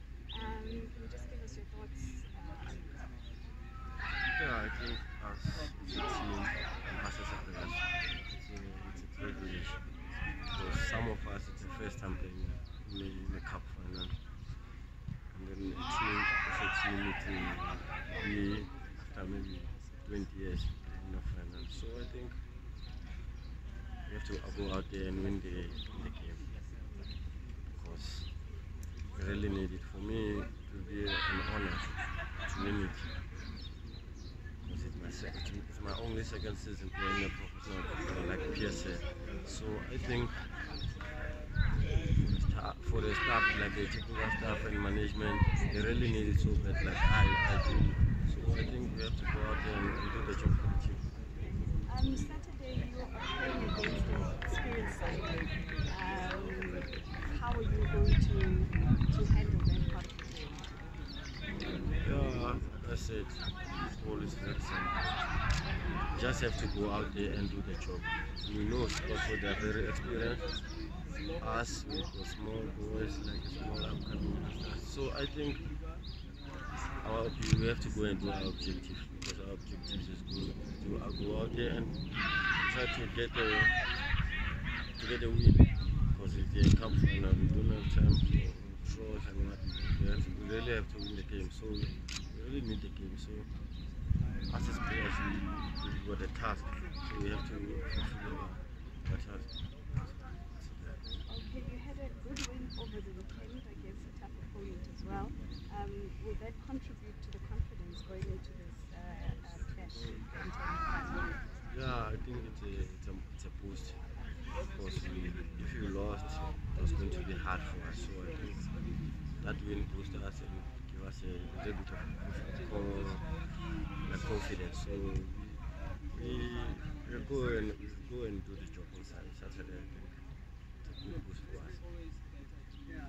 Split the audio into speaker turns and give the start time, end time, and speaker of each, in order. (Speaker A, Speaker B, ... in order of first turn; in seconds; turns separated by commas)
Speaker A: 0.3-3.0, Speaker B: 4.3-9.8, Speaker B: 10.5-14.2, Speaker B: 15.3-22.4, Speaker B: 24.1-26.5, Speaker B: 27.7-28.3, Speaker B: 29.1-33.1, Speaker B: 34.6-40.4, Speaker B: 42.2-51.0, Speaker A: 51.8-60.7, Speaker B: 62.0-65.3, Speaker B: 66.1-70.5, Speaker B: 71.4-75.7, Speaker B: 77.0-82.0, Speaker B: 82.6-83.8, Speaker B: 85.0-93.5, Speaker B: 94.5-101.2, Speaker A: 101.2-111.3, Speaker B: 111.7-114.0, Speaker B: 114.7-118.6, Speaker B: 119.4-123.3, Speaker B: 124.0-125.6, Speaker B: 126.1-130.2, Speaker B: 130.8-131.8